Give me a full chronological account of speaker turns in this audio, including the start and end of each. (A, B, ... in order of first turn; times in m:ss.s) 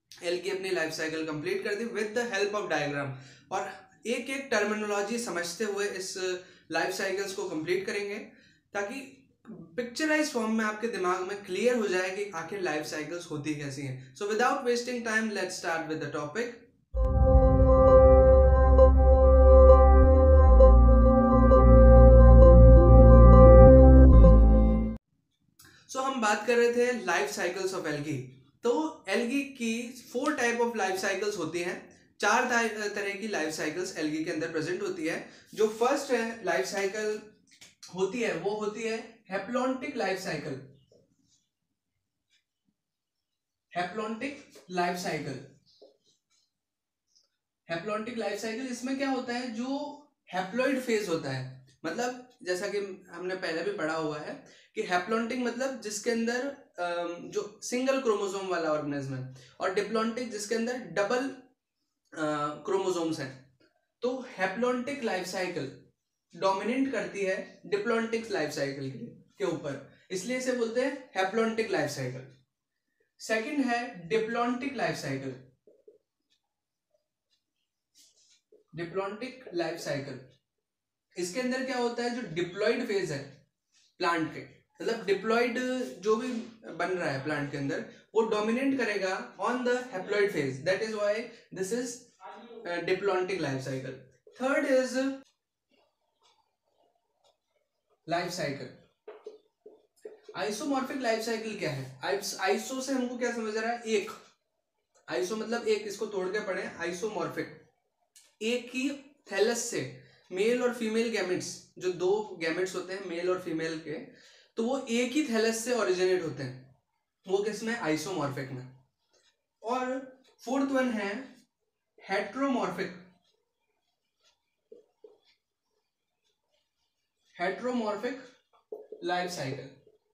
0:00.2-0:16.6 A
0:25.9-0:37.2 A
0:37.9-0:40.6 A
0:43.7-0:45.4 A
0:47.7-1:01.4 A
1:02.1-1:03.4 A
1:04.0-1:05.7 A
1:06.3-1:12.3 A
1:13.2-1:15.4 A
1:18.7-1:20.2 A
1:21.2-1:23.3 A
1:24.0-1:35.2 A
1:38.0-1:38.8 A
1:40.3-1:44.1 A
1:45.1-1:47.6 A
1:48.4-1:56.6 A
1:57.2-1:58.7 A
1:59.6-2:01.2 A
2:02.0-2:03.0 A
2:07.4-2:08.2 A
2:09.0-2:09.7 A